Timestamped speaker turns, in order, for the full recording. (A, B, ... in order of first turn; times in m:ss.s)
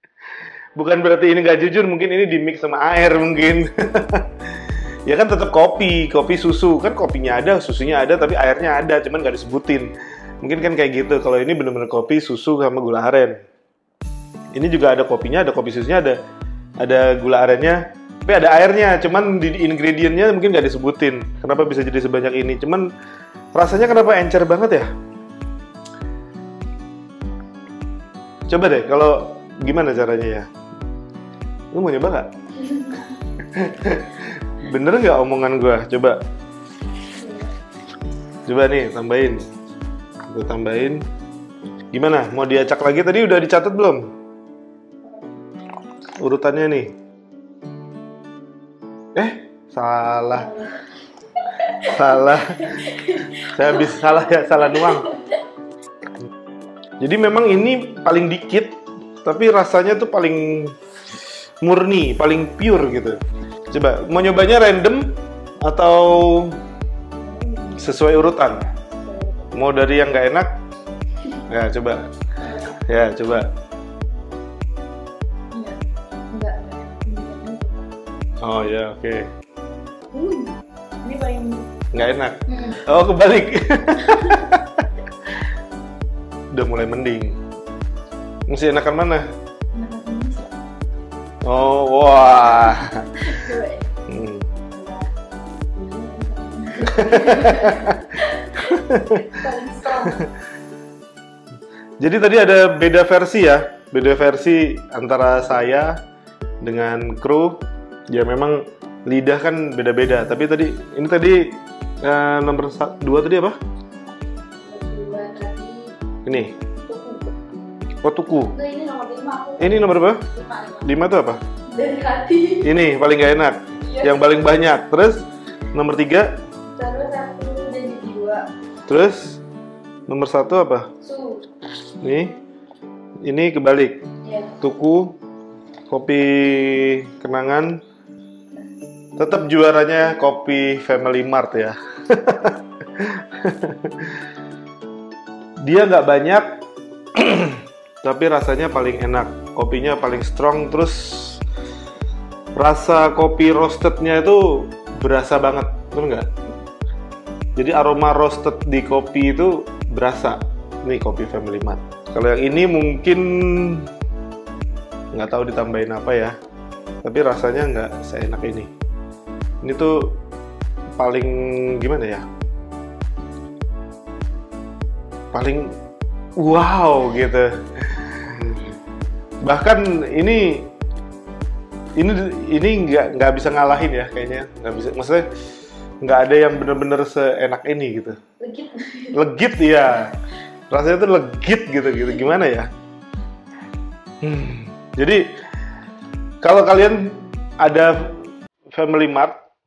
0:00.8-0:04.2 A
0:05.1-0:13.4 A
0:14.5-0:16.2 A
0:16.8-0:22.9 A
0:23.5-0:24.9 A
0:28.5-0:30.5 A
0:31.7-0:32.3 A
0:32.7-0:33.0 B
0:33.4-0:36.2 A
0:37.1-0:37.5 B
0:38.5-0:39.4 A
0:40.3-0:41.0 A
0:41.9-0:44.0 A
0:45.0-0:45.3 B
0:46.2-0:46.9 A
0:49.1-0:50.5 A
0:50.4-0:50.7 B
0:51.6-0:55.4 B
0:51.7-0:55.1 A
0:57.0-1:00.8 A
1:01.6-1:03.2 A
1:03.7-1:05.1 A
1:05.6-1:06.5 A
1:07.2-1:09.5 B
1:07.8-1:08.7 A
1:09.5-1:10.5 A
1:11.5-1:12.0 A
1:12.4-1:12.8 B
1:12.7-1:13.4 A
1:15.5-1:17.9 B
1:18.4-1:19.2 A
1:20.1-1:21.7 B
1:21.9-1:24.8 A
1:22.5-1:22.8 B
1:24.0-1:24.4 B
1:26.5-1:27.4 A
1:28.5-1:29.2 A
1:29.7-1:30.5 B
1:31.4-1:33.0 A
1:32.6-1:33.9 B
1:34.1-1:34.5 A
1:34.7-1:35.1 B
1:35.7-1:40.2 B
1:36.8-1:40.3 A
1:42.0-1:45.9 A
1:46.6-1:47.6 A
1:48.1-1:51.5 A
1:52.0-1:53.5 A
1:54.6-1:55.9 B
1:56.2-1:56.5 A
1:56.8-1:57.3 B
1:58.0-1:58.5 A
1:58.5-2:00.9 B
1:59.6-2:00.2 A
2:00.8-2:01.4 A
2:01.7-2:02.7 B
2:02.6-2:06.3 A
2:03.8-2:04.2 B
2:06.7-2:08.5 B
2:08.9-2:09.4 A
2:10.1-2:10.9 A
2:11.0-2:11.5 B
2:12.0-2:12.3 A
2:13.2-2:14.0 A
2:14.2-2:14.6 B
2:14.6-2:15.2 A
2:15.9-2:17.8 A
2:19.2-2:24.1 A
2:25.6-2:26.6 A
2:27.1-2:31.4 A
2:32.6-2:36.3 A
2:37.6-2:43.8 A
2:45.1-2:46.3 A
2:47.0-2:48.7 A
2:49.6-2:50.0 A
2:51.0-2:52.2 A
2:55.3-2:55.6 A
2:56.4-2:58.7 A
2:59.4-3:00.7 A
3:02.0-3:05.2 A
3:06.0-3:08.2 A
3:08.4-3:09.2 B
3:09.1-3:10.1 A
3:10.7-3:12.7 A
3:14.2-3:15.2 A
3:16.4-3:19.4 A